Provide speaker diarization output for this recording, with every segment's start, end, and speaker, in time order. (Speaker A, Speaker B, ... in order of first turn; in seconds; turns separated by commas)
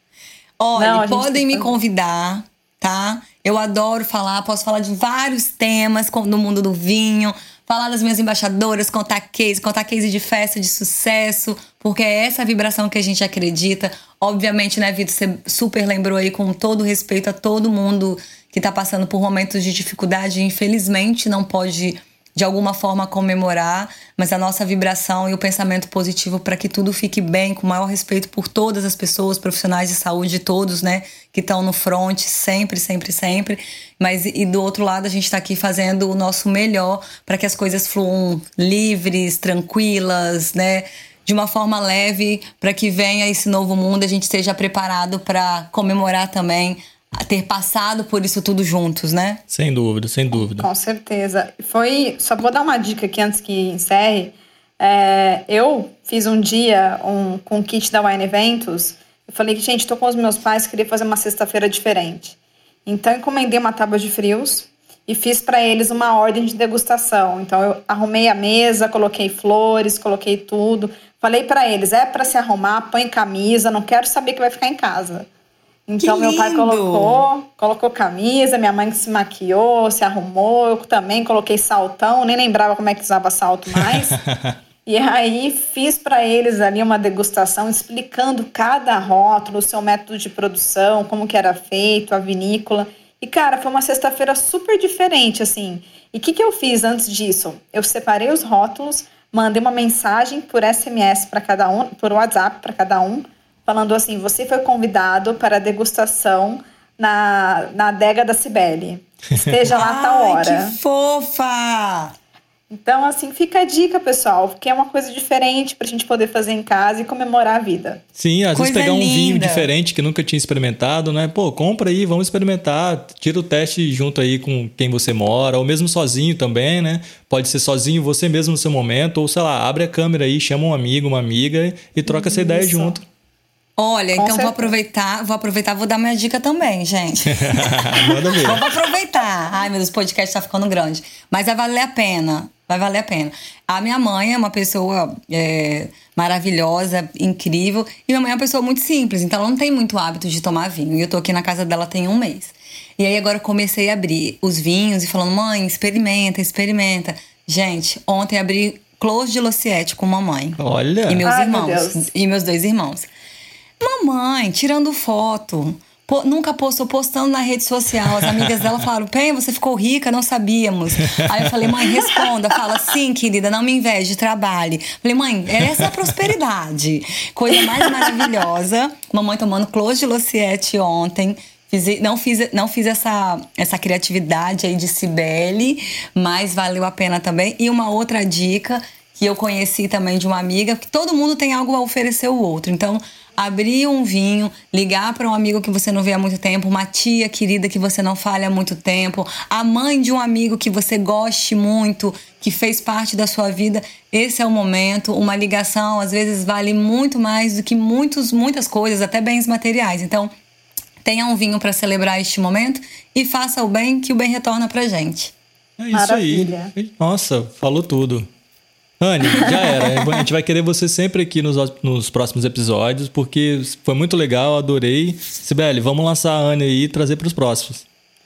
Speaker A: 0.6-49.4, Speaker B: 0.8-1.7, Speaker C: 49.5-50.7, Speaker B: 50.3-75.3, Speaker B: 75.9-84.2, Speaker A: 76.0-77.3, Speaker C: 83.8-84.6, Speaker B: 84.8-110.7, Speaker A: 109.7-112.1, Speaker B: 112.7-118.0, Speaker C: 118.2-133.0, Speaker A: 118.5-119.7, Speaker B: 132.1-132.9, Speaker A: 133.8-163.1, Speaker B: 134.2-134.7, Speaker C: 137.4-138.6, Speaker C: 160.6-161.2, Speaker B: 161.2-162.1, Speaker A: 163.8-210.3, Speaker A: 211.0-215.3, Speaker C: 215.8-218.3, Speaker B: 215.9-216.7, Speaker C: 219.0-227.8, Speaker B: 219.4-219.6